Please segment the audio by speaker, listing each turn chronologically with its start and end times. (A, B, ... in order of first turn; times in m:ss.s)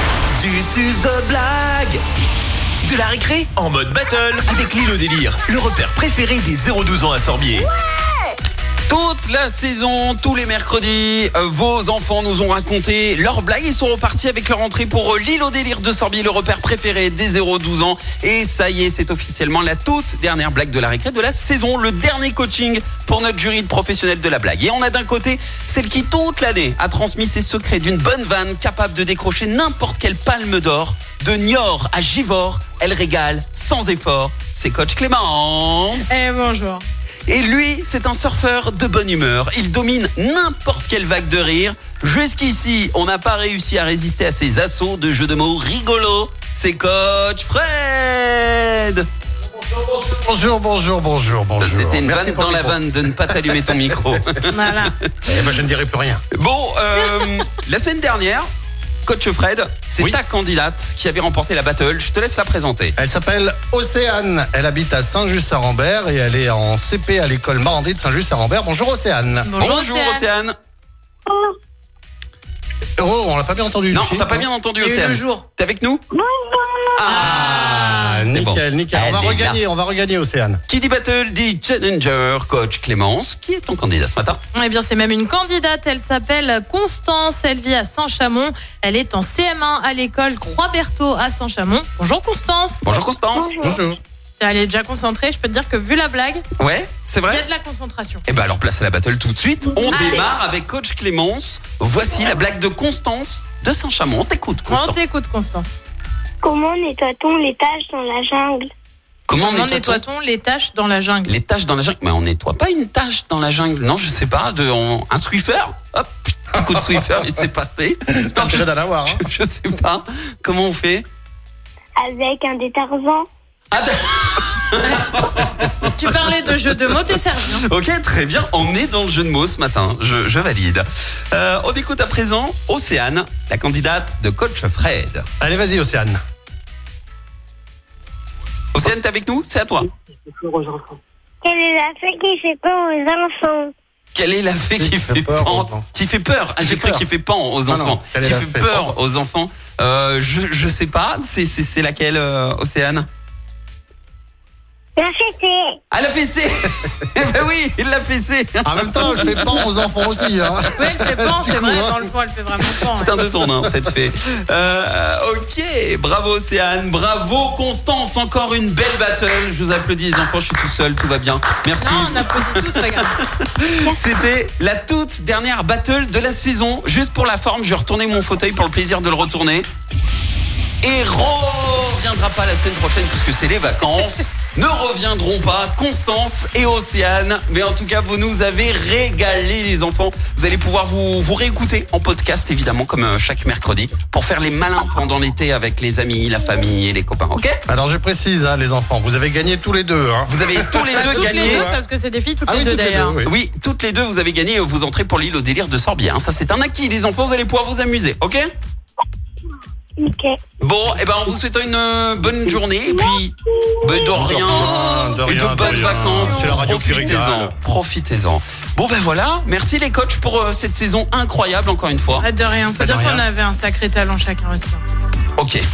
0:00.4-0:02.0 A
0:02.8-0:07.7 A
0:08.9-0:36.1 B
0:36.0-0:36.8 C
0:37.3-0:49.1 B
0:49.4-0:54.1 D
0:51.6-0:54.9 B
0:54.5-0:55.0 C
0:55.3-0:56.2 D
0:56.3-0:58.5 B
0:59.0-1:03.0 B
1:03.0-1:09.5 D
1:09.5-1:10.3 C
1:09.6-1:10.6 B
1:11.3-1:11.6 E
1:13.0-1:14.5 D
1:13.9-1:16.0 B
1:14.8-1:15.5 C
1:16.1-1:17.1 E
1:17.0-1:19.6 B
1:17.1-1:18.3 C
1:17.2-1:20.6 D
1:20.7-1:24.4 B
1:24.5-1:32.9 C
1:32.8-1:33.8 B
1:33.3-1:33.8 E
1:33.6-1:34.0 D
1:34.4-1:36.4 C
1:36.6-1:37.4 B
1:37.3-1:38.2 C
1:38.3-1:45.0 B
1:39.9-1:40.3 C
1:44.7-1:45.8 C
1:46.4-1:48.7 E
1:49.3-1:50.0 B
1:49.3-1:51.4 C
1:51.3-2:01.1 B
1:56.6-1:57.5 D
1:58.2-1:59.2 D
2:02.0-2:03.3 E
2:03.7-2:06.1 B
2:04.8-2:05.1 C
2:05.9-2:07.6 C
2:07.6-2:15.3 B
2:15.4-2:16.2 D
2:18.7-2:19.9 B
2:21.4-2:23.7 E
2:24.2-2:33.1 B
2:24.8-2:25.9 D
2:26.6-2:27.1 D
2:27.7-2:29.0 D
2:35.0-2:35.8 E
2:35.9-2:40.7 B
2:38.6-2:42.0 D
2:40.7-2:43.2 C
2:43.0-2:59.7 B
2:51.8-2:53.2 C
3:00.8-3:17.6 B
3:17.7-3:21.8 D
3:20.3-3:21.7 B
3:20.9-3:23.2 C
3:22.5-3:23.3 D
3:23.2-3:28.5 B
3:30.0-3:30.4 E
3:30.6-3:42.3 B
3:34.1-3:37.5 D
3:34.4-3:35.2 C
3:36.2-3:36.7 C
3:42.2-3:44.8 C
3:42.8-3:43.2 D
3:45.4-3:45.6 B